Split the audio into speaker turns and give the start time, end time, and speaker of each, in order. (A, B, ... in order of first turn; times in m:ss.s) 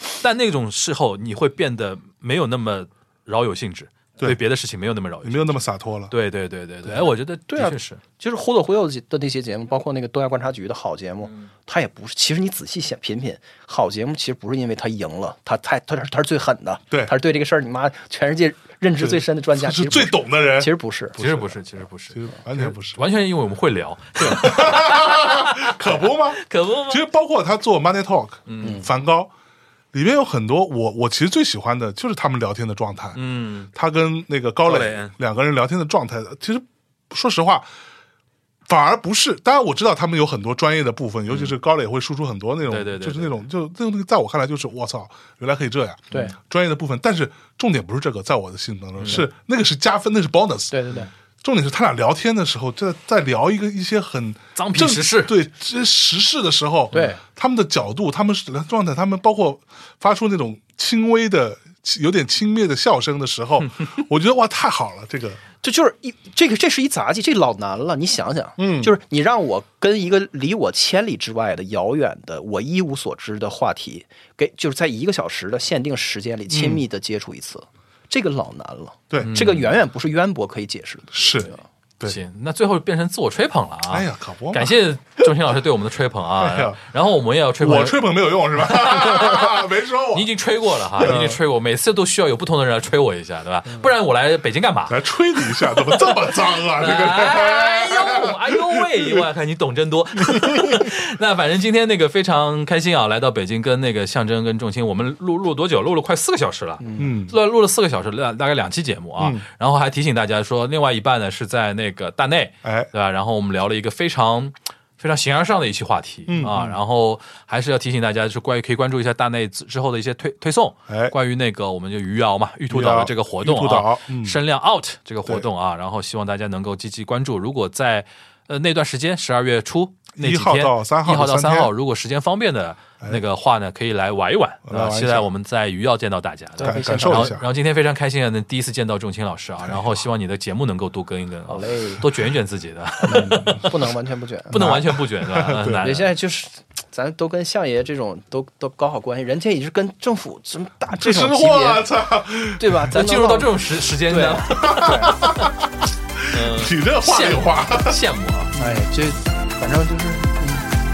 0:00.2-0:08.0 A
0:05.2-0:06.1 B
0:07.5-0:21.4 C
0:19.0-0:21.4 B
0:21.2-0:27.0 A
0:22.1-0:23.0 B
0:24.2-0:29.3 B
0:28.5-0:28.8 A
0:28.6-0:28.9 C
0:29.9-0:33.2 B
0:33.2-0:33.7 A
0:33.7-0:37.7 B
0:34.6-0:35.1 A
0:38.7-0:50.8 B
0:42.7-0:43.4 A
0:46.1-0:46.4 C
0:49.0-0:49.2 A
0:50.7-0:51.1 C
0:51.4-1:05.4 B
0:54.5-0:55.3 A
0:56.9-0:57.2 C
1:03.6-1:03.9 A
1:05.6-1:21.5 C
1:08.6-1:08.9 B
1:16.5-1:16.8 B
1:19.2-1:19.7 A
1:21.1-1:22.2 B
1:22.0-1:28.0 A
1:23.9-1:25.3 B
1:26.4-1:26.8 B
1:27.6-1:30.3 B
1:28.6-1:29.6 A
1:30.1-2:23.7 A
1:30.9-1:31.4 B
1:34.9-1:39.2 B
1:40.2-1:40.9 B
1:46.8-1:47.1 C
1:47.0-1:47.4 B
1:49.2-1:49.4 B
1:52.6-1:52.9 B
1:56.3-1:56.8 B
2:00.9-2:01.1 B
2:02.7-2:04.4 B
2:10.2-2:11.7 B
2:14.7-2:15.3 B
2:16.6-2:17.4 C
2:16.6-2:17.4 B
2:19.6-2:20.0 B
2:21.5-2:22.0 C
2:23.1-2:23.8 B
2:23.1-2:24.8 C
2:24.5-2:26.1 A
2:24.5-2:25.8 B
2:25.8-2:31.9 C
2:30.9-2:32.9 B
2:32.4-2:35.4 C
2:32.9-2:34.8 A
2:34.6-2:38.0 B
2:36.3-2:38.6 A
2:38.6-2:38.8 B
2:38.6-2:40.8 C